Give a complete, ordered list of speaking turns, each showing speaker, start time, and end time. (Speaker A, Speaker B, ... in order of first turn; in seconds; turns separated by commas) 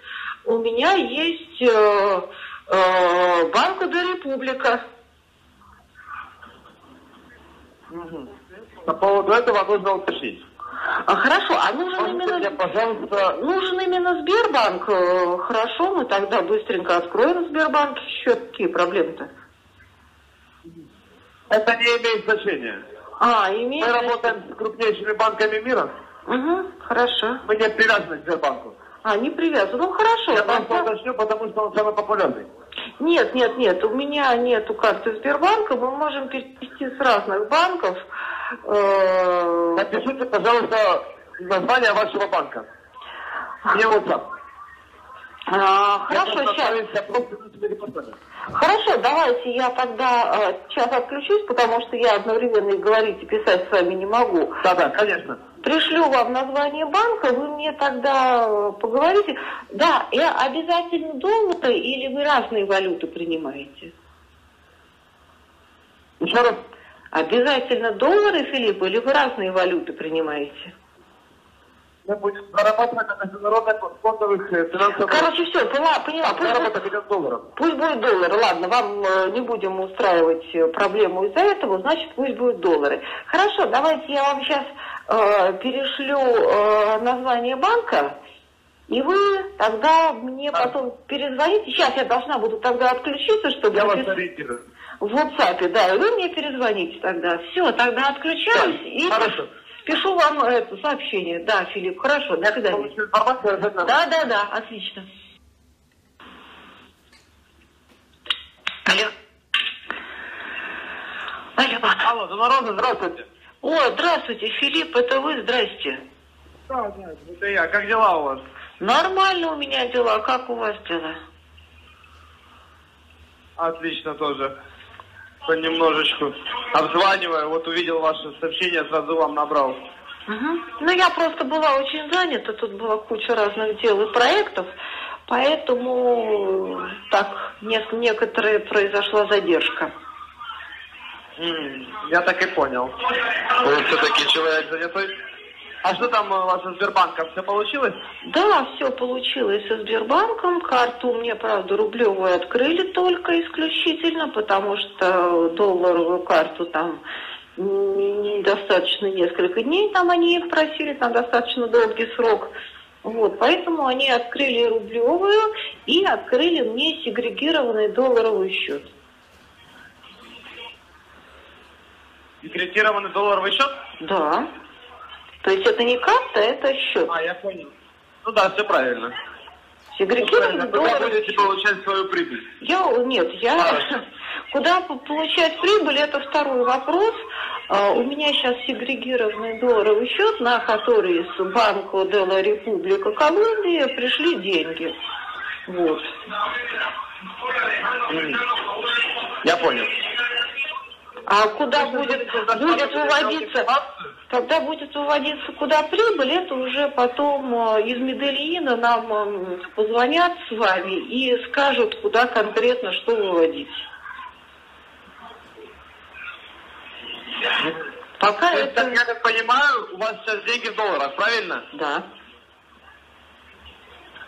Speaker A: 0.4-4.8, Speaker B: 7.9-8.3, Speaker B: 8.8-10.4, Speaker A: 11.1-12.6, Speaker B: 12.0-13.3, Speaker A: 13.2-19.3, Speaker B: 21.5-22.8, Speaker A: 23.2-24.4, Speaker B: 23.8-25.9, Speaker A: 26.3-27.4, Speaker B: 27.4-28.7, Speaker A: 29.0-30.9, Speaker B: 30.3-32.5, Speaker A: 33.0-38.0, Speaker A: 38.6-39.8, Speaker B: 39.7-42.7, Speaker B: 43.7-44.2, Speaker A: 45.5-46.8, Speaker B: 46.1-48.1, Speaker A: 48.5-54.6, Speaker B: 54.6-55.4, Speaker A: 55.6-63.9, Speaker B: 66.2-66.6, Speaker A: 67.1-70.7, Speaker B: 72.0-75.3, Speaker A: 75.0-76.8, Speaker B: 76.2-77.4, Speaker A: 77.5-88.2, Speaker A: 88.9-94.1, Speaker B: 93.7-94.6, Speaker A: 95.0-102.9, Speaker B: 98.5-99.5, Speaker B: 102.6-103.9, Speaker A: 103.8-105.0, Speaker A: 108.8-109.1, Speaker A: 111.6-112.0, Speaker B: 112.0-113.3, Speaker A: 113.6-116.0, Speaker B: 116.7-118.4, Speaker A: 118.8-121.2, Speaker B: 123.6-124.5, Speaker B: 125.5-129.8, Speaker A: 130.3-134.7, Speaker A: 135.3-139.9, Speaker B: 141.4-145.1, Speaker B: 145.8-148.0, Speaker A: 148.2-157.0, Speaker A: 157.6-162.5, Speaker A: 163.0-168.8, Speaker B: 172.4-173.7, Speaker A: 174.0-174.5, Speaker A: 175.4-177.1, Speaker B: 177.1-177.7, Speaker B: 178.2-179.1, Speaker A: 179.9-181.5, Speaker B: 180.2-182.4, Speaker A: 182.6-184.0, Speaker B: 183.6-183.9, Speaker A: 184.5-194.9, Speaker A: 195.7-196.1, Speaker B: 198.1-198.5, Speaker B: 199.3-199.9, Speaker A: 201.3-203.7, Speaker B: 201.7-203.9, Speaker A: 204.3-213.8, Speaker B: 217.5-217.8, Speaker A: 218.2-219.0, Speaker B: 218.5-221.6, Speaker A: 221.7-222.0